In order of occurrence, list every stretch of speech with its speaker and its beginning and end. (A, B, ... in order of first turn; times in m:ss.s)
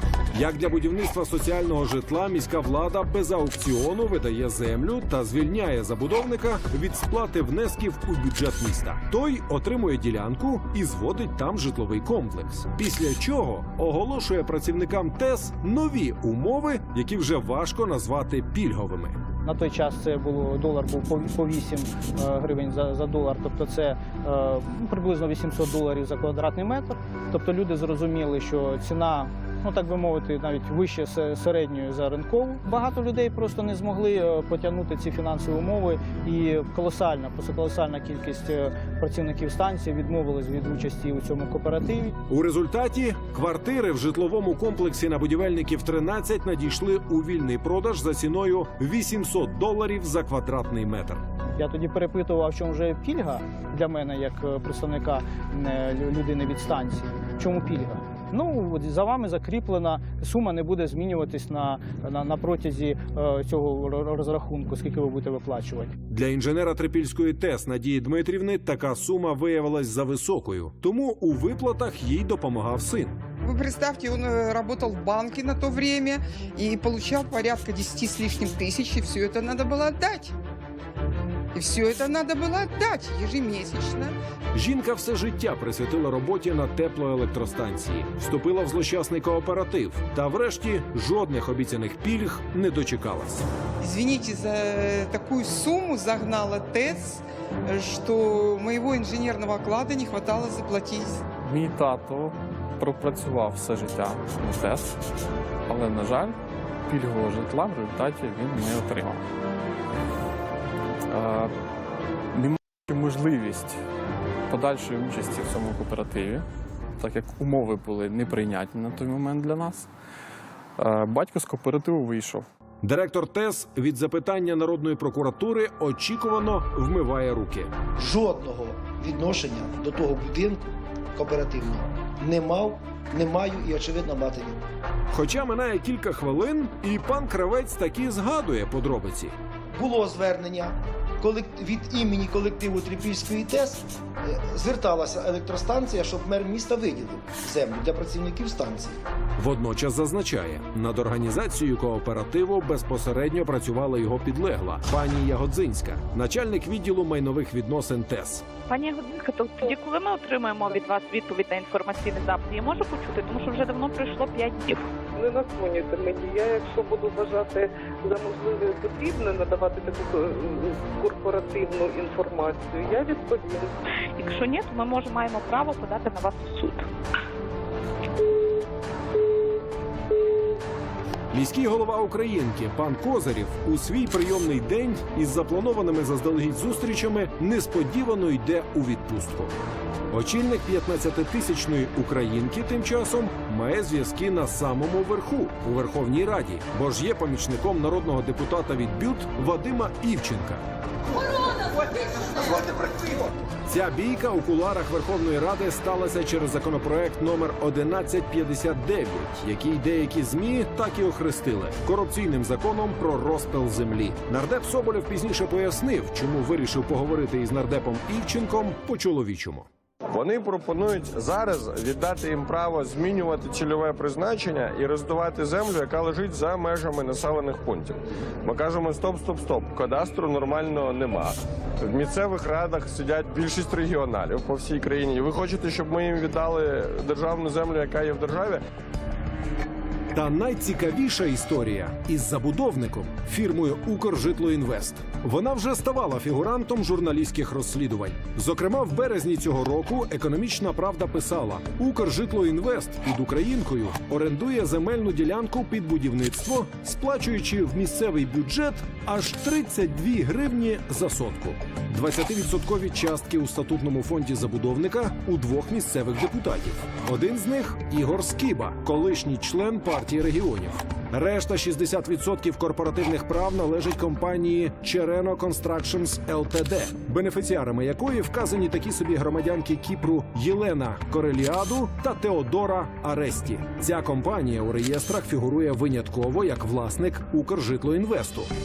0:00.3-0:19.2 A
0:19.4-0:42.1 B
0:42.3-0:51.2 A
0:51.6-1:05.9 B
1:06.1-1:13.2 A
1:13.4-1:20.3 C
1:21.5-1:24.1 C
1:24.5-1:33.4 A
1:33.8-1:41.2 C
1:41.4-1:45.0 D
1:45.7-1:46.4 D
1:46.9-1:49.2 D
1:51.2-1:51.5 D
1:52.9-1:53.8 D
1:54.5-1:56.4 D
1:57.0-1:59.9 D
2:00.8-2:02.4 D
2:02.8-2:07.7 A
2:08.0-2:14.6 E
2:15.1-2:19.3 A
2:19.7-2:29.0 E
2:29.4-2:38.4 A
2:38.7-2:44.9 F
2:45.1-2:53.7 G
2:54.2-2:56.9 F
3:01.3-3:09.5 A
3:10.1-3:20.6 A
3:23.6-3:39.7 A
3:40.1-3:58.6 H
4:00.1-4:48.5 A